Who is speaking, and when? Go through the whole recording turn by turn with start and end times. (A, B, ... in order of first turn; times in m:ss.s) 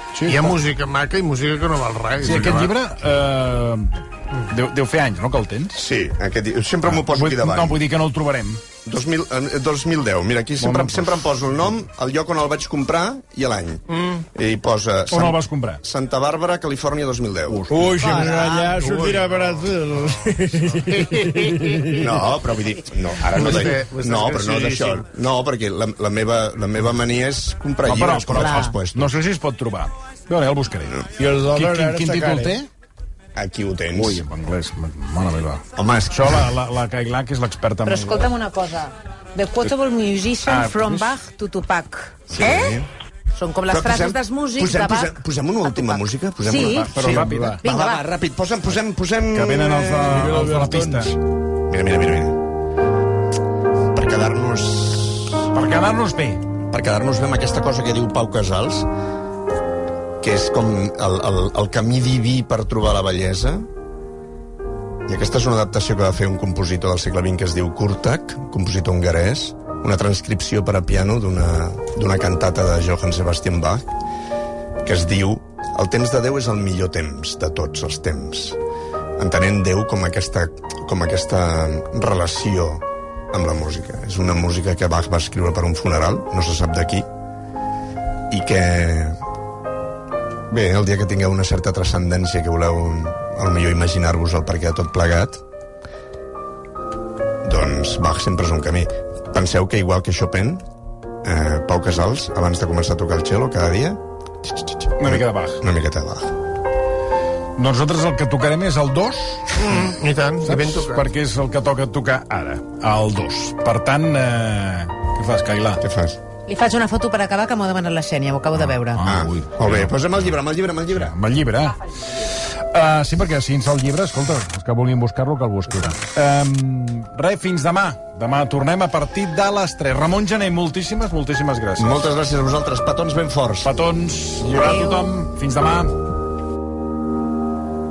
0:00.1-0:00.6 A
0:00.3-0:02.7 B
0:02.2-0:04.0 A
0:04.5-0:05.8 A
0:05.7-0:07.8 C
0:06.9-0:08.6 A
0:08.8-0:17.7 C
0:10.6-0:11.1 A
0:13.9-0:14.2 B
0:15.1-0:15.8 A
0:17.5-0:18.4 A
0:17.7-0:22.1 D
0:18.0-0:18.8 E
0:18.8-0:19.2 B
0:20.8-0:22.0 B
0:21.9-0:29.2 C
0:23.3-0:25.0 B
0:27.8-0:32.7 A
0:28.3-0:28.8 E
0:31.2-0:32.6 D
0:33.4-0:34.2 C
0:33.9-0:38.3 A
0:35.8-0:36.5 C
0:37.8-0:42.8 E
0:40.5-0:41.1 A
0:42.3-0:42.9 C
0:43.3-0:48.0 E
0:43.7-0:50.3 C
0:46.5-0:47.6 A
0:49.3-0:51.1 A
0:50.1-0:51.1 D
0:51.7-0:52.4 C
0:53.9-0:55.5 C
0:55.5-0:56.4 A
0:56.7-0:58.9 C
1:00.2-1:03.7 C
1:05.1-1:14.0 C
1:14.8-1:18.6 C
1:19.2-1:27.1 C
1:28.3-1:29.2 C
1:30.5-1:35.4 C
1:37.4-1:40.6 C
1:41.2-1:46.4 C
1:45.0-1:45.6 A
1:47.6-1:49.8 A
1:49.6-1:51.1 B
1:50.4-1:55.8 A
1:55.8-1:56.2 C
1:56.5-1:59.0 E
1:58.6-2:00.3 A
1:59.0-2:01.1 C
2:00.9-2:12.0 A
2:11.8-2:13.7 C
2:13.6-2:16.0 A
2:14.5-2:15.1 E